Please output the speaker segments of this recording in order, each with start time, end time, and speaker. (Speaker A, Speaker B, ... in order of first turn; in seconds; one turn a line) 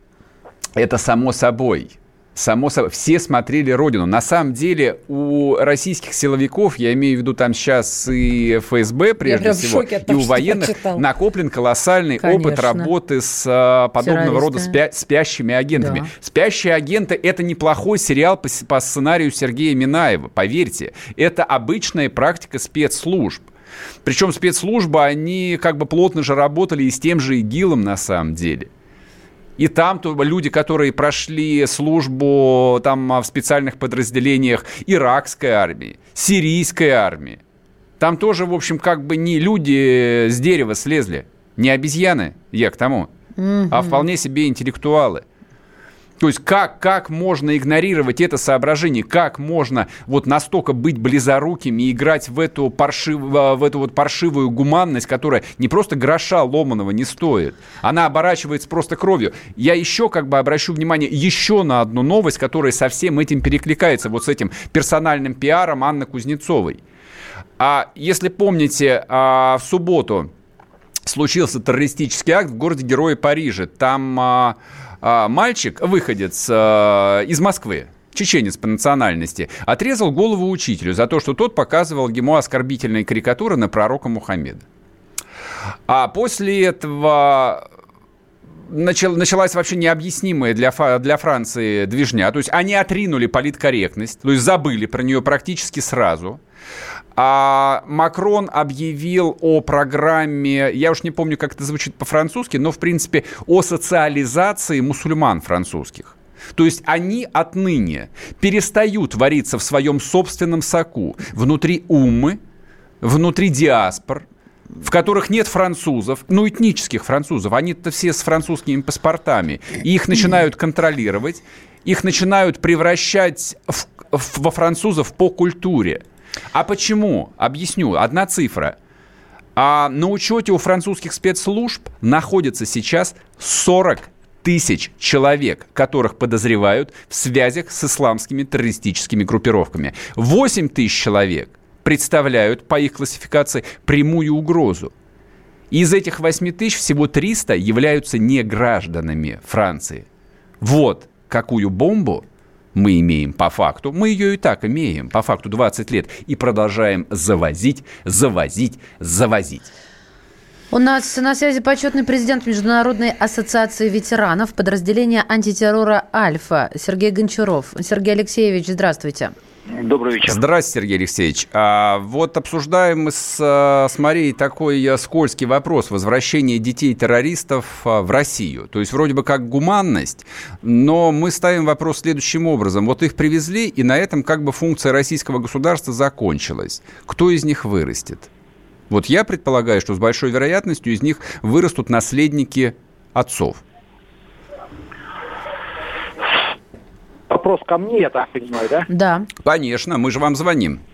Speaker A: 0.8-23.5
Speaker B: 9.2-11.0
Speaker B: 12.2-12.9
Speaker B: 14.0-14.8
Speaker B: 15.8-16.1
Speaker A: 24.0-28.7
Speaker A: 29.6-37.4
Speaker A: 38.0-43.1
Speaker B: 43.4-44.0
Speaker A: 43.7-45.2
Speaker A: 46.2-66.8
Speaker A: 67.6-70.3
Speaker A: 71.0-84.6
Speaker A: 85.9-87.6
Speaker A: 88.6-96.4
Speaker A: 97.1-112.4
Speaker A: 113.0-114.2
Speaker A: 114.8-128.8
Speaker A: 129.6-144.9
Speaker A: 145.7-150.1
Speaker A: 150.6-159.7
Speaker B: 160.7-169.3
Speaker C: 169.7-170.4
Speaker A: 170.2-188.3
Speaker A: 188.9-193.6
Speaker C: 197.3-198.9
Speaker B: 198.9-199.3
Speaker A: 199.4-200.8